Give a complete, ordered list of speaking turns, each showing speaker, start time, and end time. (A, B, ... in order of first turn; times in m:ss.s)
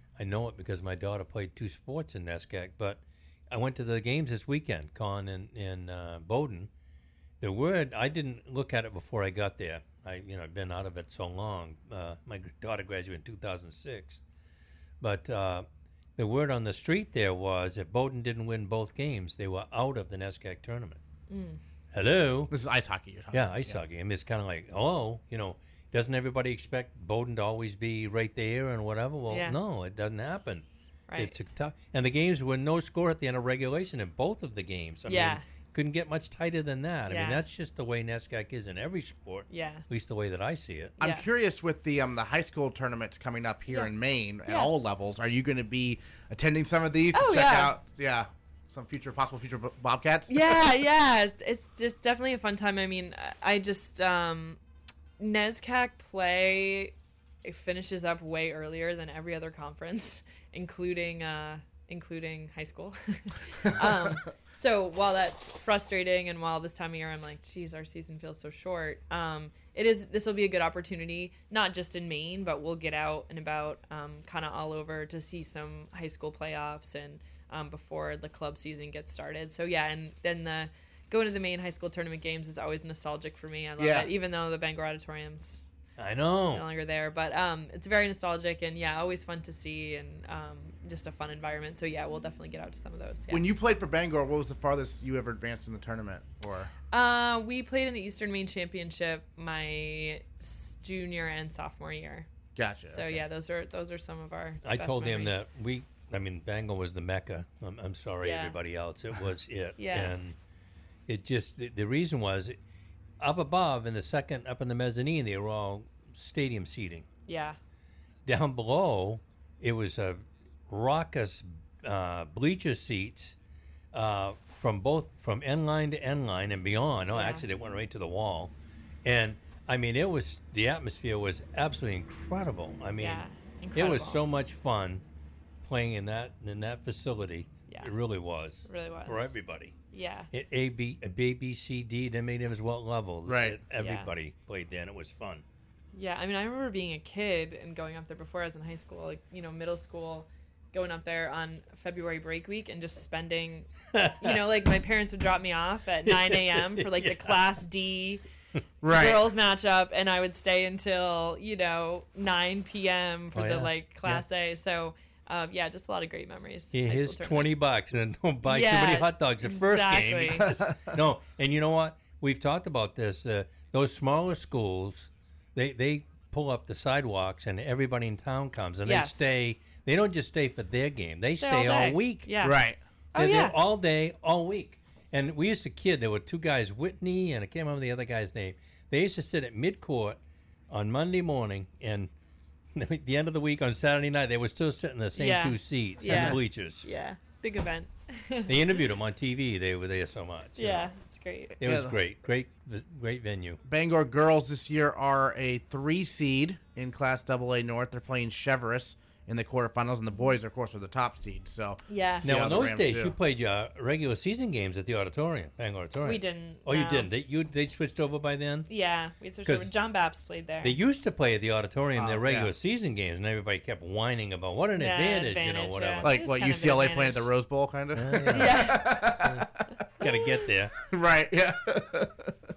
0:00.2-0:06.7 A
0:07.4-0:14.2 A
0:15.0-0:21.0 A
0:21.3-0:21.6 B
0:21.9-0:22.5 A
0:22.5-0:23.7 C
0:23.3-0:30.6 A
0:29.3-0:29.6 B
0:31.1-0:31.4 B
0:31.2-0:41.0 A
0:35.1-0:35.4 B
0:37.1-0:37.4 B
0:39.5-0:39.8 B
0:41.0-0:41.2 B
0:41.0-0:50.6 C
0:47.1-0:47.7 B
0:50.3-0:54.6 B
0:55.2-1:25.7 B
1:23.8-1:24.1 C
1:26.0-1:26.6 A
1:26.5-1:33.4 B
1:33.3-1:36.7 C
1:36.9-1:42.3 B
1:42.6-1:43.2 C
1:42.9-1:45.4 B
1:44.6-1:50.4 A
1:48.2-1:48.6 B
1:49.8-1:50.2 B
1:51.1-1:52.6 A
1:53.2-1:57.1 A
1:57.3-1:57.6 B
1:58.2-2:03.4 A
2:03.9-2:08.5 A
2:07.1-2:07.4 B
2:09.0-2:15.0 A
2:13.0-2:14.2 B
2:15.6-2:19.8 A
2:18.7-2:19.4 B
2:19.9-2:20.3 B
2:20.3-2:25.4 A
2:23.2-2:23.6 C
2:23.8-2:24.1 B
2:25.9-2:38.2 B
2:33.9-2:34.4 A
2:36.0-2:37.4 A
2:38.8-2:39.2 C
2:38.9-2:47.5 B
2:43.3-2:44.2 A
2:46.7-3:02.3 A
2:48.4-2:50.5 B
2:50.5-2:50.9 C
2:58.9-2:59.4 B
3:01.4-3:02.6 B
3:02.4-3:02.8 C
3:03.1-3:03.6 B
3:03.2-3:12.1 A
3:12.7-3:16.8 A
3:15.2-3:18.8 B
3:18.5-3:20.9 A
3:20.6-3:21.6 B
3:21.6-3:23.6 A
3:21.6-3:21.9 C
3:23.6-3:33.1 C
3:31.9-3:32.3 B
3:32.2-3:38.7 A
3:36.0-3:37.1 B
3:38.7-3:40.8 B
3:39.4-3:39.7 A
3:40.6-3:46.1 A
3:42.0-3:42.5 C
3:44.8-3:47.3 B
3:46.0-3:49.9 C
3:47.9-3:50.8 A
3:48.3-3:49.1 B
3:50.0-3:50.5 B
3:50.8-3:52.3 C